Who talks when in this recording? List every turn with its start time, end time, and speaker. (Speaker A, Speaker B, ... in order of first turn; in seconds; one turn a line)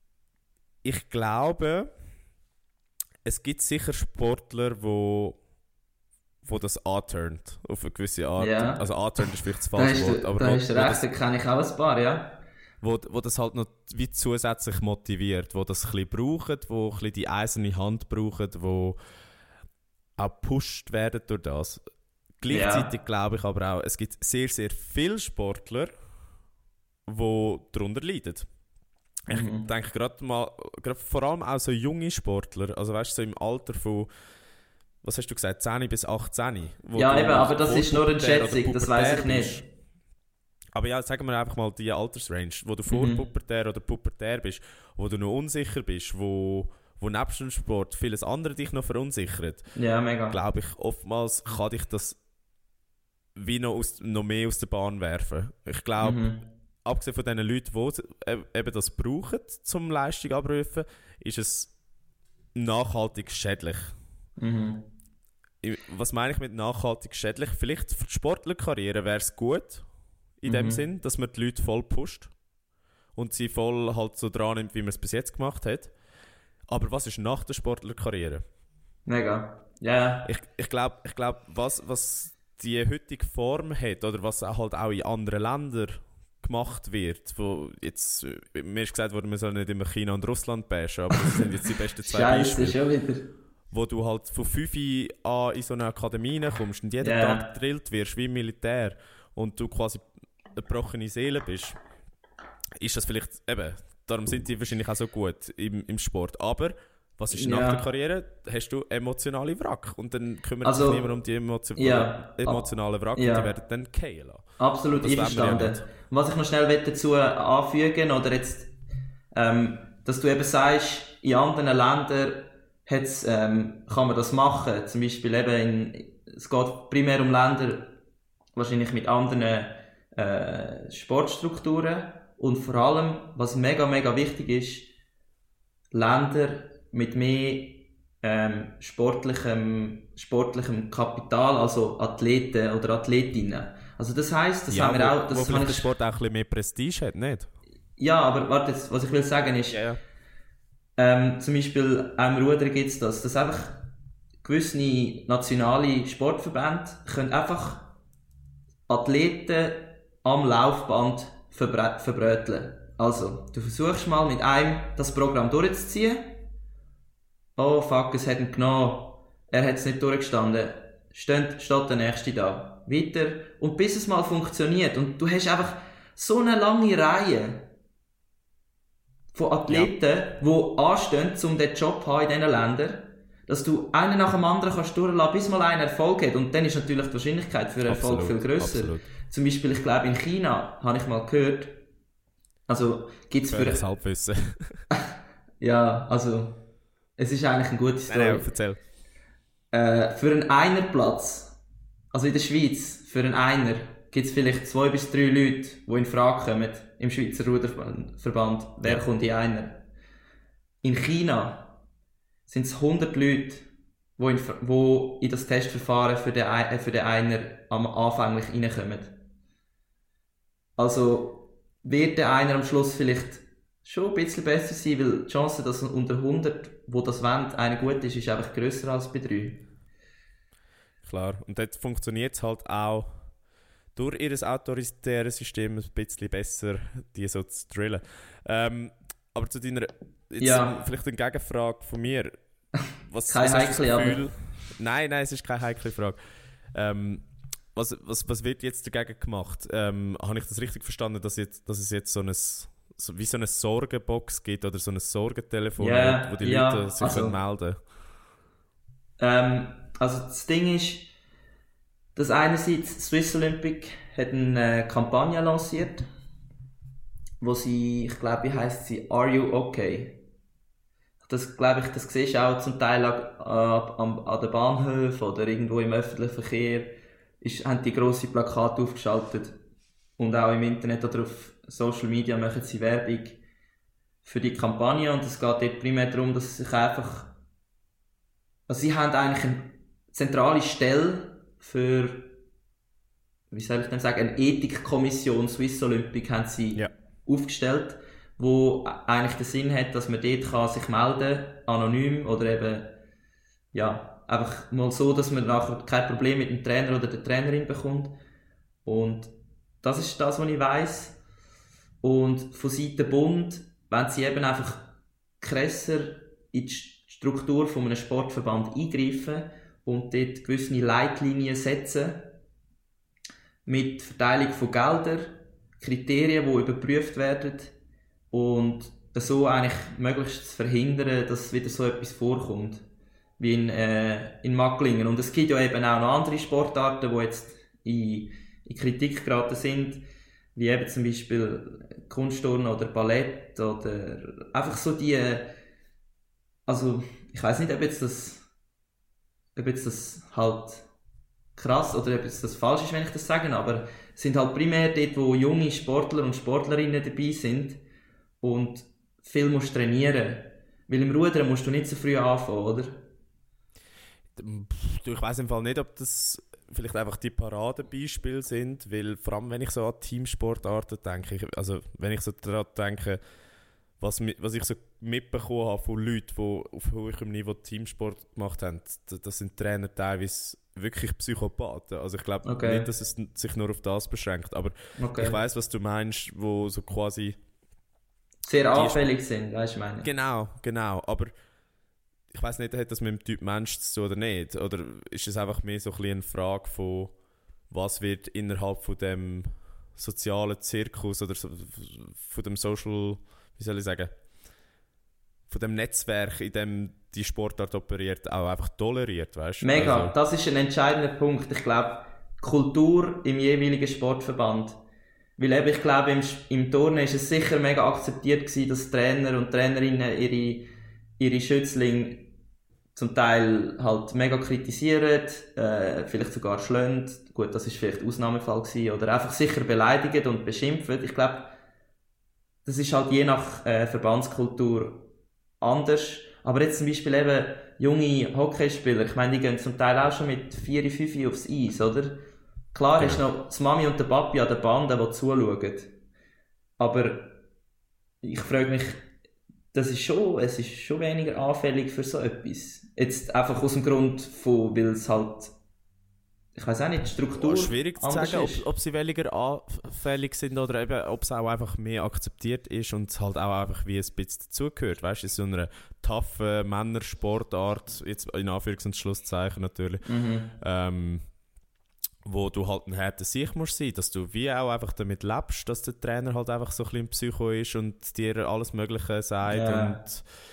Speaker A: 0.8-1.9
Speaker A: 3.2-5.4
Speaker A: 6.4-11.0
Speaker B: 8.4-12.4
Speaker A: 12.8-19.0
Speaker A: 20.2-21.8
Speaker A: 22.4-25.9
Speaker B: 22.5-22.9
Speaker A: 27.1-28.4
Speaker A: 29.3-34.1
Speaker B: 29.3-29.7
Speaker A: 35.0-39.6
Speaker B: 37.0-39.6
Speaker A: 40.7-49.6
Speaker B: 42.9-43.3
Speaker B: 49.8-50.4
Speaker A: 50.3-52.2
Speaker A: 53.4-56.2
Speaker B: 56.0-56.4
Speaker A: 56.8-61.7
Speaker A: 62.5-63.9
Speaker B: 64.4-64.9
Speaker A: 65.6-69.8
Speaker A: 70.4-72.3
Speaker B: 70.4-70.8
Speaker A: 73.1-75.9
Speaker A: 76.7-78.4
Speaker B: 79.0-80.3
Speaker A: 80.2-92.8
Speaker B: 91.1-93.3
Speaker A: 93.7-101.8
Speaker B: 97.0-97.5
Speaker A: 102.8-114.5
Speaker B: 107.3-107.8
Speaker B: 110.6-111.0
Speaker B: 111.8-113.5
Speaker B: 114.6-118.7
Speaker A: 115.0-115.8
Speaker B: 119.3-128.0
Speaker B: 128.6-134.9
Speaker B: 135.9-145.9
Speaker A: 144.7-147.5
Speaker B: 148.0-149.8
Speaker A: 149.7-150.0
Speaker B: 151.0-153.8
Speaker B: 154.4-157.9
Speaker B: 158.9-166.3
Speaker B: 167.6-177.7
Speaker B: 179.3-191.8
Speaker A: 187.9-189.1
Speaker B: 192.7-193.8
Speaker A: 193.5-194.8
Speaker B: 195.6-196.6
Speaker B: 197.2-198.5
Speaker A: 198.1-198.8
Speaker B: 199.7-201.6
Speaker B: 202.1-209.8
Speaker B: 210.8-211.7
Speaker B: 212.5-213.7
Speaker B: 214.2-219.1
Speaker B: 220.8-229.6
Speaker A: 231.0-233.1
Speaker A: 233.9-242.3
Speaker B: 240.4-240.7
Speaker A: 243.1-246.2
Speaker B: 243.3-244.2
Speaker A: 246.7-257.8
Speaker B: 255.8-257.4
Speaker B: 259.2-261.1
Speaker B: 262.1-266.0
Speaker B: 267.4-270.2
Speaker B: 271.2-279.5
Speaker B: 280.2-283.4
Speaker B: 284.2-287.3
Speaker B: 288.7-292.3
Speaker B: 293.5-302.9
Speaker B: 303.7-308.1
Speaker B: 308.8-311.2
Speaker B: 312.0-314.9
Speaker B: 315.4-322.3
Speaker B: 323.6-327.7
Speaker B: 328.3-332.8
Speaker B: 333.4-340.0
Speaker B: 340.5-345.5
Speaker B: 346.7-348.4
Speaker B: 349.6-350.8
Speaker B: 351.6-357.8
Speaker B: 358.4-363.0
Speaker A: 364.4-373.2
Speaker A: 374.0-387.4
Speaker B: 382.4-382.9
Speaker B: 385.0-385.4
Speaker B: 388.4-390.1
Speaker A: 388.7-389.0
Speaker A: 390.0-391.3
Speaker A: 392.3-397.1
Speaker A: 397.7-404.1
Speaker A: 405.5-410.1
Speaker B: 409.6-414.8
Speaker B: 415.4-420.7
Speaker B: 421.2-422.3
Speaker B: 422.9-431.5
Speaker B: 432.6-435.1
Speaker B: 435.6-442.2
Speaker B: 442.7-445.9
Speaker B: 446.8-447.4
Speaker B: 448.2-449.1
Speaker B: 449.7-455.5
Speaker B: 456.5-458.6
Speaker A: 457.3-470.0
Speaker B: 470.0-470.5
Speaker A: 470.6-471.2
Speaker A: 472.2-480.2
Speaker B: 479.5-480.0